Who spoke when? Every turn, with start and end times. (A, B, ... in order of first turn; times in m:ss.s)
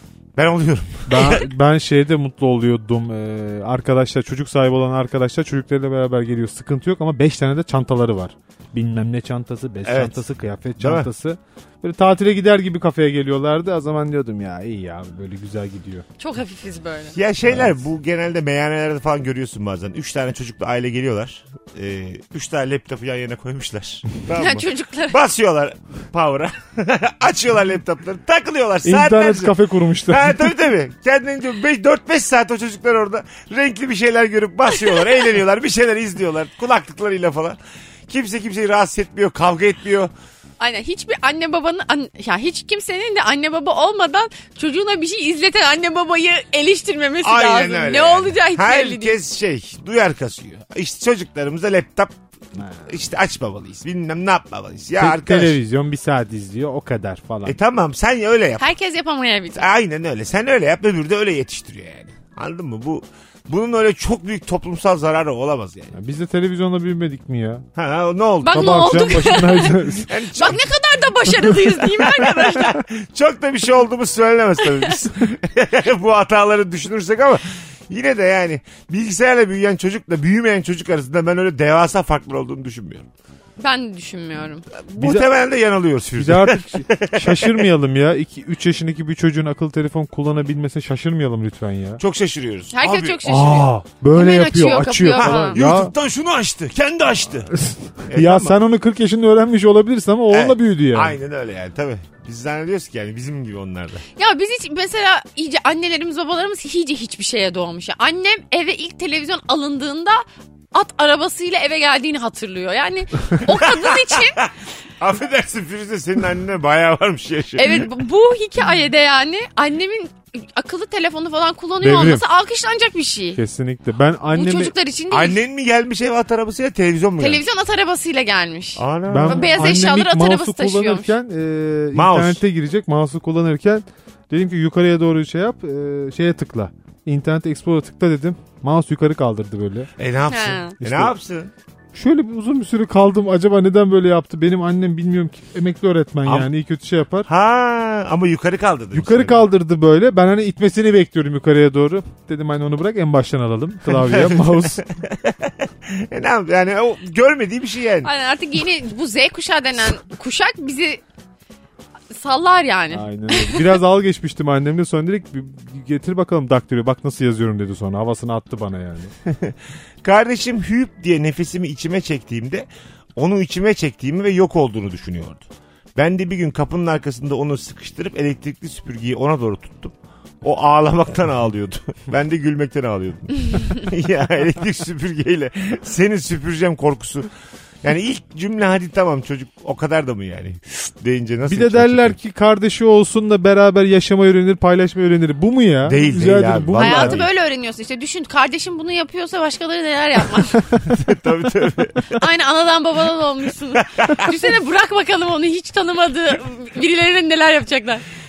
0:00.4-0:01.5 A
0:01.1-0:16.1 B
0:09.8-0:10.2 A
0:10.8-0:11.1 A
0:16.2-0:17.2 C
0:17.1-0:40.1 A
0:17.5-0:17.7 B
0:24.3-0:25.2 C
0:28.8-0:30.5 B
0:40.6-0:49.2 C
0:47.2-0:52.2 A
0:52.8-0:55.6 A
0:55.0-0:57.6 B
0:57.4-0:58.7 A
0:58.6-0:59.6 C
0:59.6-1:05.9 A
1:05.9-1:07.7 B
1:07.8-1:10.7 A
1:08.4-1:09.8 C
1:08.5-1:10.1 B
1:10.3-1:12.8 C
1:11.8-1:23.1 A
1:23.6-1:24.7 C
1:24.9-1:27.7 A
1:25.0-1:25.3 B
1:26.2-1:32.0 B
1:32.0-1:33.6 A
1:32.7-1:35.6 C
1:33.2-1:35.9 B
1:35.2-1:37.5 A
1:37.6-1:41.2 B
1:38.1-1:38.6 A
1:40.3-1:44.0 A
1:44.2-1:54.4 C
1:53.5-1:57.9 A
1:57.6-2:03.4 C
2:01.8-2:02.2 B
2:03.4-2:04.7 B
2:04.3-2:05.4 C
2:05.1-2:07.4 A
2:07.2-2:11.1 C
2:08.8-2:09.8 A
2:09.1-2:19.9 B
2:11.9-2:12.4 A
2:20.0-2:21.5 A
2:20.3-2:20.8 C
2:20.8-2:21.2 B
2:21.9-2:27.3 B
2:27.3-2:29.4 A
2:28.9-2:34.8 B
2:33.9-2:38.1 A
2:38.0-2:41.0 C
2:42.1-2:43.7 C
2:42.9-2:49.1 B
2:49.3-3:07.3 A
3:07.8-3:12.2 A
3:11.5-3:17.2 B
3:15.8-3:17.3 A
3:16.8-3:20.6 C
3:20.8-3:22.2 A
3:22.1-3:28.0 C
3:23.8-3:24.3 A